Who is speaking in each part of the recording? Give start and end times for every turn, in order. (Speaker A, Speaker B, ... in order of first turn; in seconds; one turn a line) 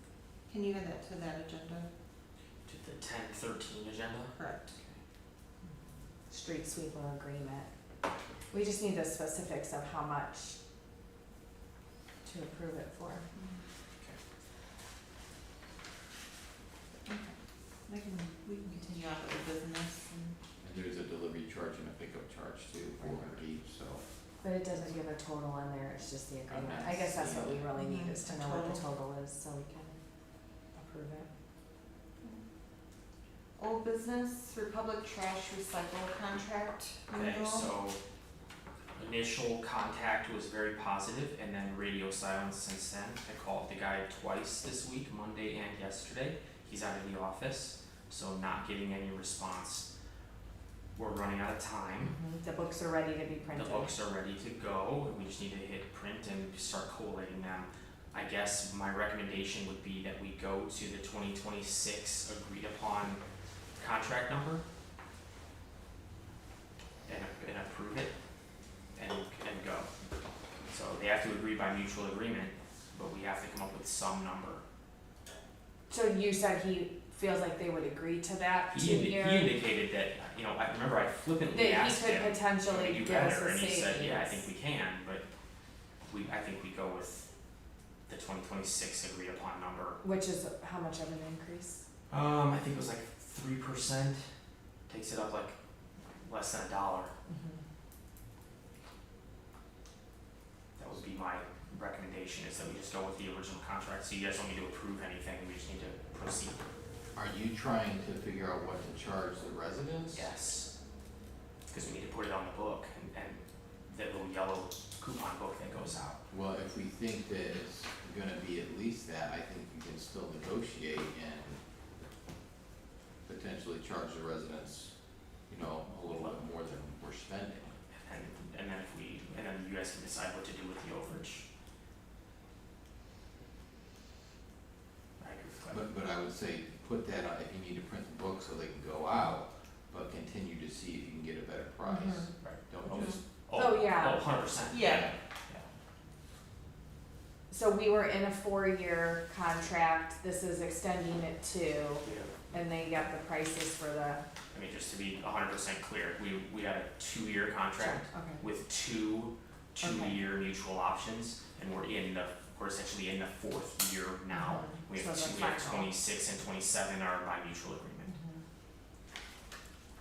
Speaker A: 0.5-1.9
Speaker B: 2.6-4.3
Speaker A: 4.3-4.7
Speaker C: 6.3-7.7
Speaker C: 8.5-10.6
Speaker C: 12.2-13.2
Speaker A: 13.3-13.6
Speaker A: 17.1-17.3
Speaker A: 17.9-20.4
Speaker D: 20.6-24.0
Speaker C: 24.4-30.0
Speaker D: 26.5-27.7
Speaker A: 27.7-28.8
Speaker C: 30.8-31.3
Speaker A: 33.6-37.7
Speaker B: 37.1-38.0
Speaker B: 39.0-49.9
Speaker B: 51.0-52.1
Speaker C: 52.0-53.9
Speaker B: 53.5-63.2
Speaker B: 63.8-64.6
Speaker B: 67.0-68.1
Speaker B: 69.0-69.9
Speaker B: 70.7-74.6
Speaker C: 75.9-79.5
Speaker B: 78.7-85.2
Speaker C: 81.5-84.4
Speaker B: 86.1-87.3
Speaker B: 88.1-90.0
Speaker C: 90.0-91.8
Speaker B: 92.1-94.3
Speaker B: 94.9-95.5
Speaker B: 96.2-97.1
Speaker C: 97.3-97.6
Speaker B: 100.8-106.6
Speaker D: 107.1-110.3
Speaker B: 110.1-110.7
Speaker B: 111.7-116.2
Speaker D: 116.3-121.6
Speaker D: 123.2-124.9
Speaker D: 125.5-127.8
Speaker B: 126.0-126.4
Speaker B: 127.9-131.4
Speaker B: 135.2-135.8
Speaker D: 135.7-143.2
Speaker C: 141.8-142.3
Speaker B: 142.4-145.7
Speaker C: 143.5-144.2
Speaker A: 144.7-145.1
Speaker C: 147.5-154.2
Speaker B: 152.0-152.6
Speaker B: 154.5-168.1
Speaker C: 157.8-158.4
Speaker A: 159.8-160.2
Speaker C: 164.3-165.9
Speaker C: 168.1-168.4